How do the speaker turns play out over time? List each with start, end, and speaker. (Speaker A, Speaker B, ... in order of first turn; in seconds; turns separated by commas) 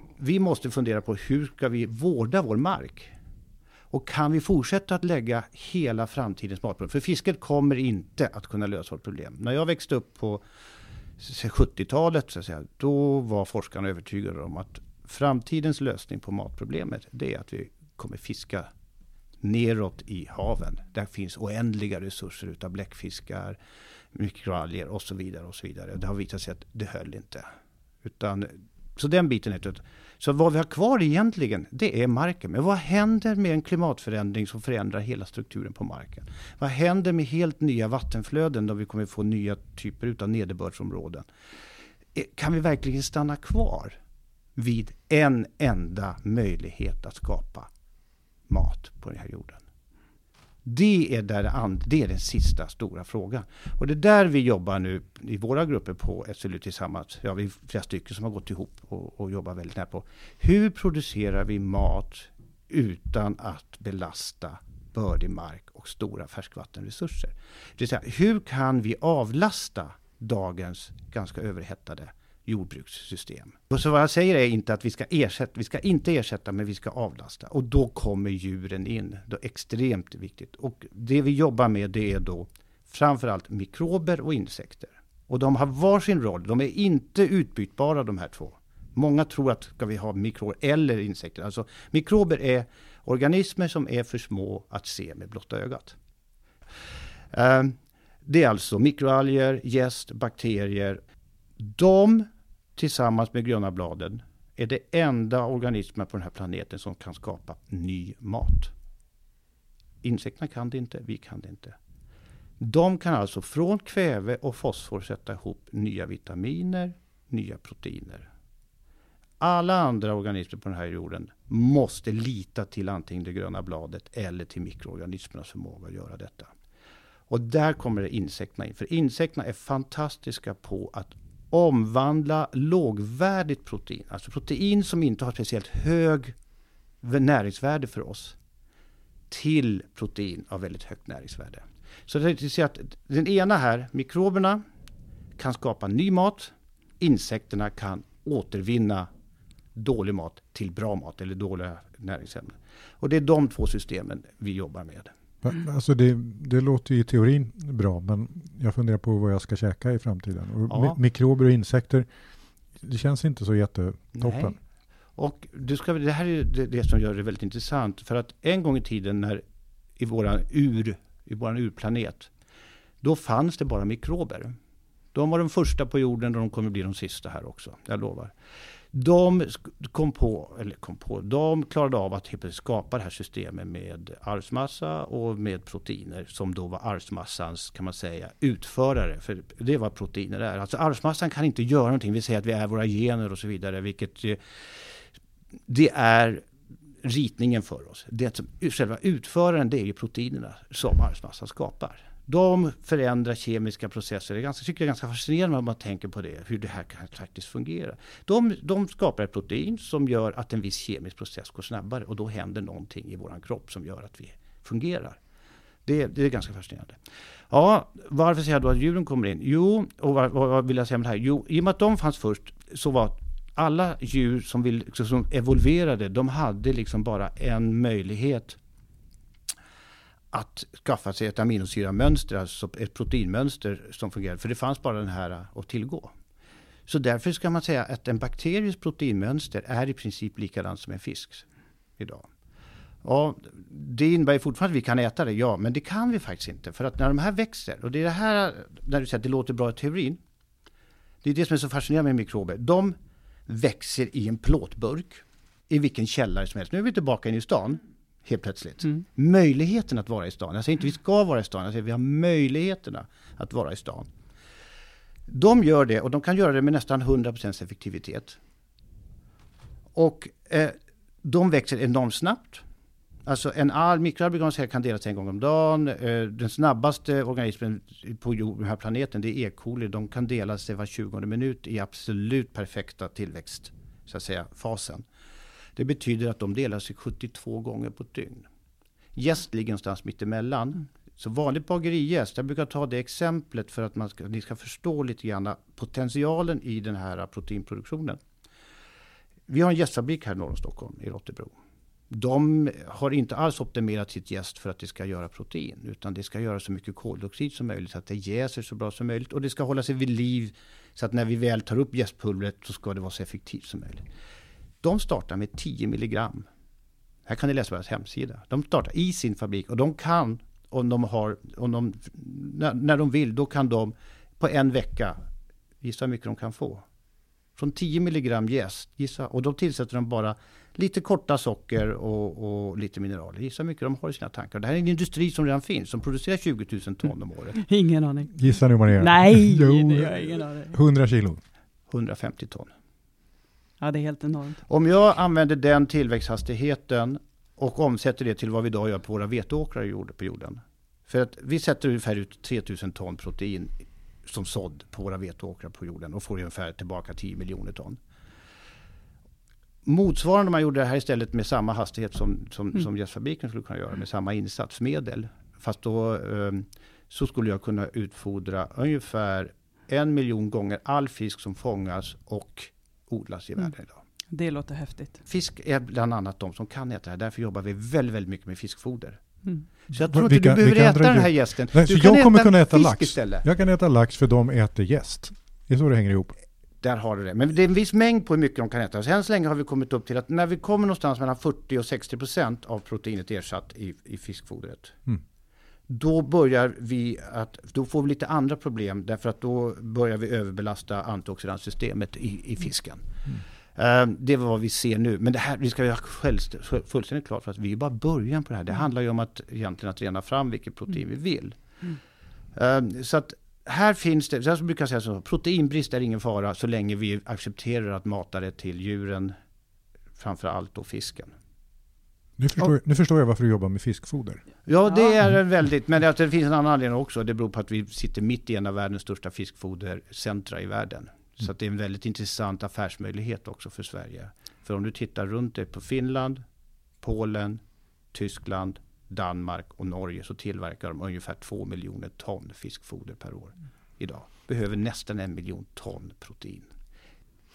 Speaker A: 0.2-3.1, Speaker A: 3.9-10.4, Speaker A: 11.2-18.7, Speaker A: 19.4-23.6, Speaker A: 24.1-27.5, Speaker A: 28.0-41.2, Speaker A: 42.1-43.9, Speaker A: 44.5-47.7, Speaker A: 48.5-49.6, Speaker A: 50.6-96.0, Speaker A: 97.3-101.0, Speaker A: 101.6-108.7, Speaker A: 110.0-111.8, Speaker A: 112.6-118.3, Speaker A: 119.4-126.5, Speaker A: 127.3-136.3, Speaker A: 137.0-138.3, Speaker A: 139.3-144.6, Speaker A: 145.4-149.1, Speaker A: 149.7-155.1, Speaker B: 155.4-162.1, Speaker A: 160.7-161.0, Speaker B: 162.8-164.6, Speaker A: 164.2-164.6, Speaker A: 165.2-169.4, Speaker A: 170.0-172.3, Speaker A: 173.0-174.6, Speaker A: 175.1-178.3, Speaker A: 178.9-194.8, Speaker A: 195.7-196.4, Speaker A: 197.0-215.2, Speaker A: 215.8-217.0, Speaker A: 217.5-228.6, Speaker A: 230.3-236.1, Speaker A: 236.9-241.4, Speaker A: 242.0-242.2, Speaker A: 243.0-250.2, Speaker A: 251.2-252.9, Speaker A: 253.5-264.1, Speaker A: 265.3-268.4, Speaker A: 269.9-272.6, Speaker A: 273.2-285.0, Speaker A: 285.8-288.5, Speaker A: 289.1-298.2, Speaker A: 299.5-301.5, Speaker A: 302.1-314.0, Speaker A: 314.8-316.5, Speaker A: 317.2-325.2, Speaker A: 325.8-326.8, Speaker A: 327.6-337.6, Speaker C: 337.6-340.8, Speaker B: 338.3-341.4, Speaker A: 341.9-342.7, Speaker C: 343.8-344.6, Speaker A: 344.7-353.7, Speaker A: 354.2-358.0, Speaker A: 359.8-374.0, Speaker C: 374.3-375.2, Speaker A: 375.2-379.2, Speaker A: 379.9-383.4, Speaker B: 380.0-386.3, Speaker A: 386.8-395.0, Speaker A: 395.9-403.1, Speaker A: 403.7-411.9, Speaker A: 412.5-419.3, Speaker A: 420.2-421.3, Speaker B: 422.4-424.4, Speaker A: 424.6-436.4, Speaker A: 437.0-437.6, Speaker A: 438.1-446.7